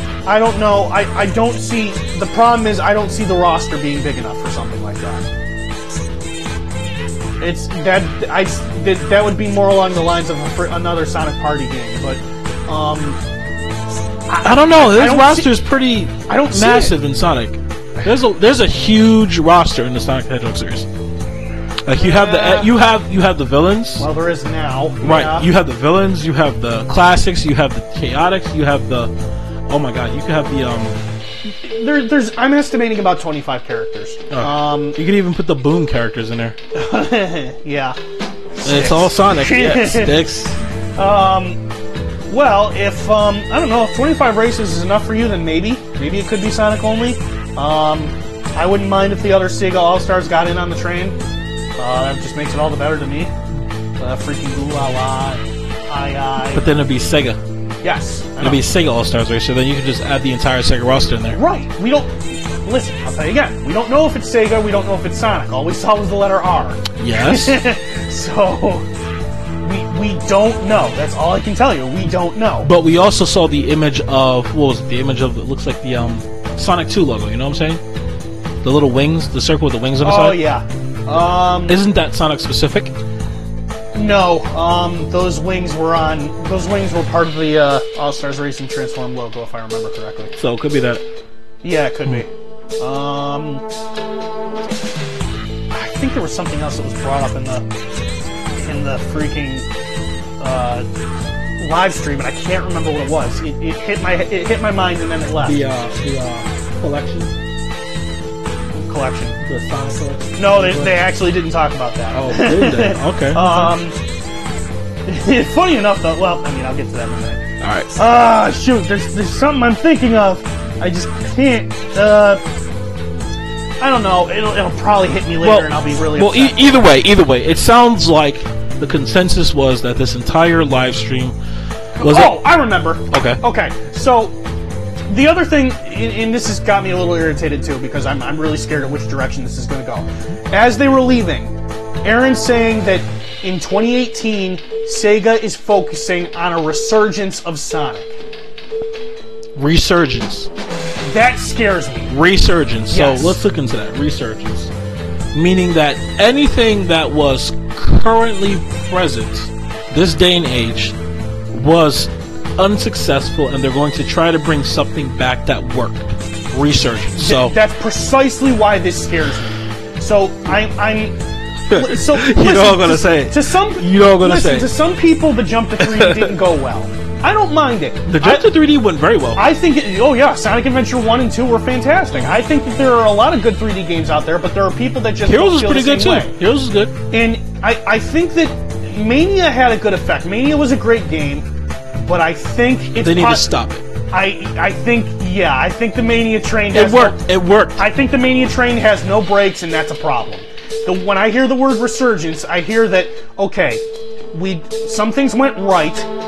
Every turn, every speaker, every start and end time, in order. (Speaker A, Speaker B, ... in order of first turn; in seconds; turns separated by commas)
Speaker A: 0.3-5.2, Speaker A: 7.4-13.2, Speaker A: 14.3-15.6, Speaker B: 14.4-20.9, Speaker A: 16.2-17.0, Speaker B: 21.9-24.1, Speaker A: 22.0-22.7, Speaker A: 24.0-25.5, Speaker B: 25.0-29.1, Speaker B: 29.7-31.0, Speaker A: 31.4-35.0, Speaker B: 34.3-36.6, Speaker A: 36.7-38.0, Speaker A: 38.6-40.2, Speaker B: 38.6-40.6, Speaker A: 41.0-41.6, Speaker A: 42.3-51.2, Speaker A: 51.8-53.3, Speaker A: 54.0-56.7, Speaker B: 56.5-57.4, Speaker A: 57.8-58.6, Speaker B: 58.4-61.4, Speaker A: 61.3-68.9, Speaker B: 67.0-67.6, Speaker A: 69.6-72.7, Speaker B: 72.6-77.8, Speaker B: 78.6-80.4, Speaker A: 80.0-81.8, Speaker B: 81.7-83.0, Speaker A: 83.9-90.3, Speaker B: 90.4-91.0, Speaker A: 91.6-93.7, Speaker A: 95.7-97.7, Speaker A: 98.5-99.7, Speaker A: 100.4-100.9, Speaker A: 101.6-105.6, Speaker B: 105.4-107.3, Speaker A: 108.7-109.4, Speaker B: 109.4-111.0, Speaker A: 110.4-114.0, Speaker B: 112.1-113.7, Speaker A: 115.1-122.4, Speaker B: 117.6-117.9, Speaker A: 123.8-126.6, Speaker B: 125.4-131.4, Speaker A: 132.0-134.3, Speaker B: 132.0-132.5, Speaker B: 133.1-133.4, Speaker A: 135.1-148.2, Speaker B: 149.6-150.5, Speaker A: 151.0-152.1, Speaker B: 152.1-154.7, Speaker A: 152.9-153.4, Speaker B: 155.3-161.0, Speaker B: 161.5-167.6, Speaker A: 167.2-171.2, Speaker A: 171.7-178.5, Speaker B: 171.7-174.7, Speaker B: 175.8-176.4, Speaker B: 178.1-179.5, Speaker A: 179.3-186.3, Speaker B: 185.2-187.0, Speaker A: 187.1-191.5, Speaker A: 192.0-193.5, Speaker B: 192.9-193.8, Speaker A: 194.1-197.2, Speaker B: 196.7-197.8, Speaker A: 197.8-206.1